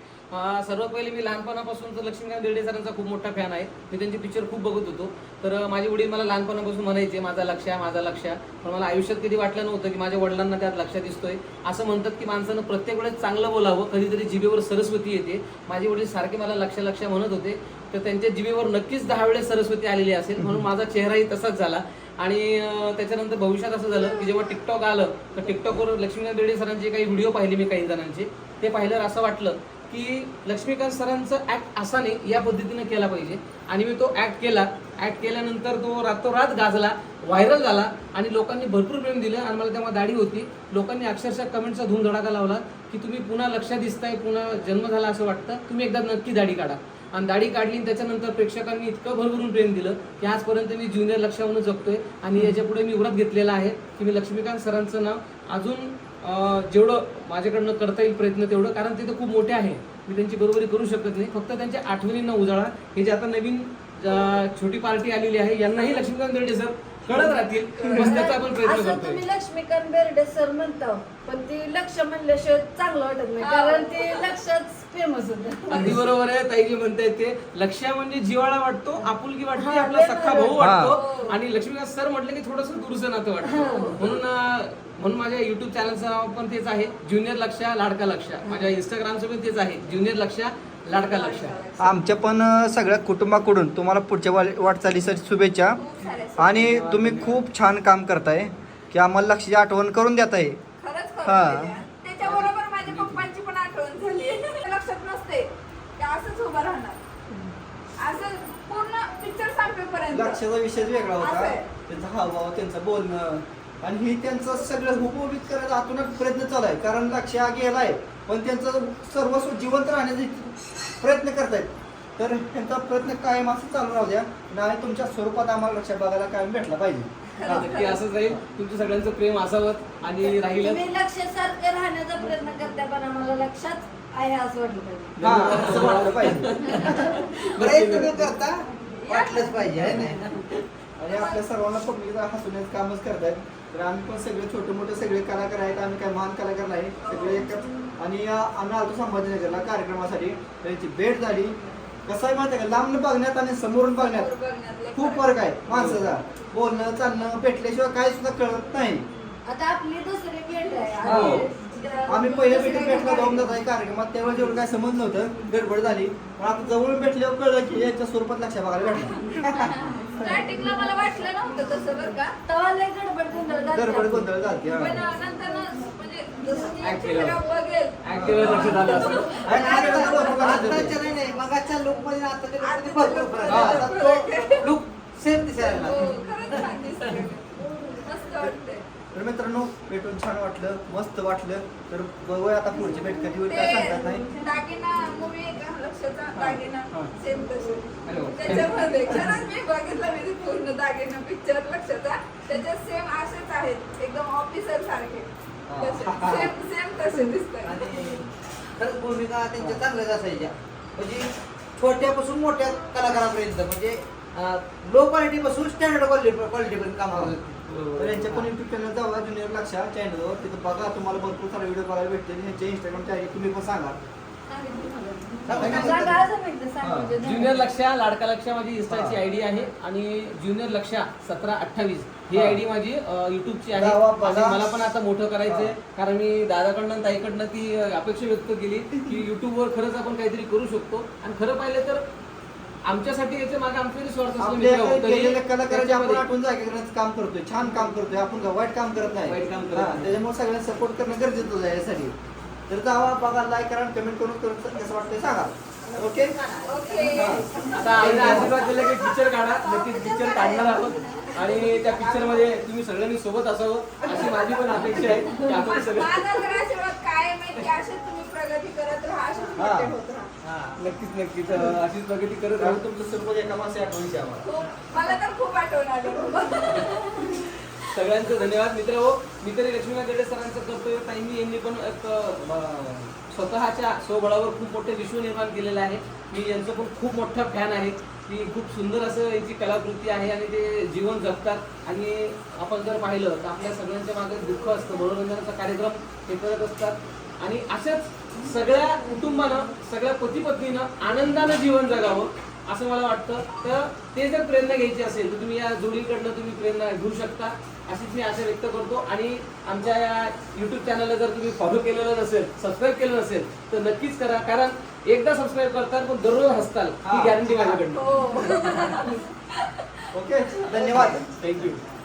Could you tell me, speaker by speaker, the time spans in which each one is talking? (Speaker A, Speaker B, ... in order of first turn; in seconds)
Speaker A: 0.3-69.2, 75.7-91.6, 96.6-97.4, 102.2-103.2, 127.4-130.9, 135.2-138.4, 140.2-140.4, 155.7-156.1, 161.0-161.5, 176.8-177.4, 178.0-179.3, 196.3-197.1, 198.0-199.4, 217.1-218.5, 227.2-242.1, 242.8-246.2, 249.2-250.1, 257.7-266.5, 270.8-272.8, 276.7-318.9, 321.0-321.8
Speaker B: 20.4-20.7, 80.6-81.0, 91.8-95.8, 96.4-100.6, 101.2-101.8, 110.1-127.7, 135.2-136.6, 141.0-154.3, 154.9-159.1, 161.1-161.4, 162.1-170.5, 173.7-175.1, 178.1-178.8, 179.4-181.0, 183.5-183.9, 189.1-194.2, 218.0-224.0, 225.6-226.2, 226.8-227.1, 228.9-229.2, 232.3-232.6, 233.7-234.7, 235.5-235.7, 244.4-252.2, 252.7-256.4, 257.1-258.6, 269.6-269.9, 272.6-274.4, 317.0-317.8, 320.1-321.3
Speaker C: 67.1-68.0, 73.4-74.3, 80.9-81.4, 90.9-92.0, 95.8-96.7, 100.8-107.0, 108.0-110.4, 111.2-111.7, 127.4-128.0, 141.1-141.4, 147.0-147.6, 153.9-155.6, 169.7-172.4, 175.3-180.1, 182.6-184.8, 185.6-188.8, 193.4-207.8, 256.6-262.5, 264.0-264.8, 265.8-270.3, 274.4-277.5, 317.9-319.6
Speaker D: 68.0-75.9, 79.5-80.7, 83.4-84.1, 130.5-135.2, 136.6-137.3, 139.1-139.9, 159.4-163.5, 170.0-170.9, 172.5-176.9, 178.4-181.4, 187.7-188.1, 194.1-194.5, 224.5-227.6, 256.9-257.4, 320.6-321.2
Speaker E: 135.2-135.9, 137.6-140.2, 179.4-186.8, 205.7-206.5, 207.6-217.3, 225.4-226.2, 270.4-270.8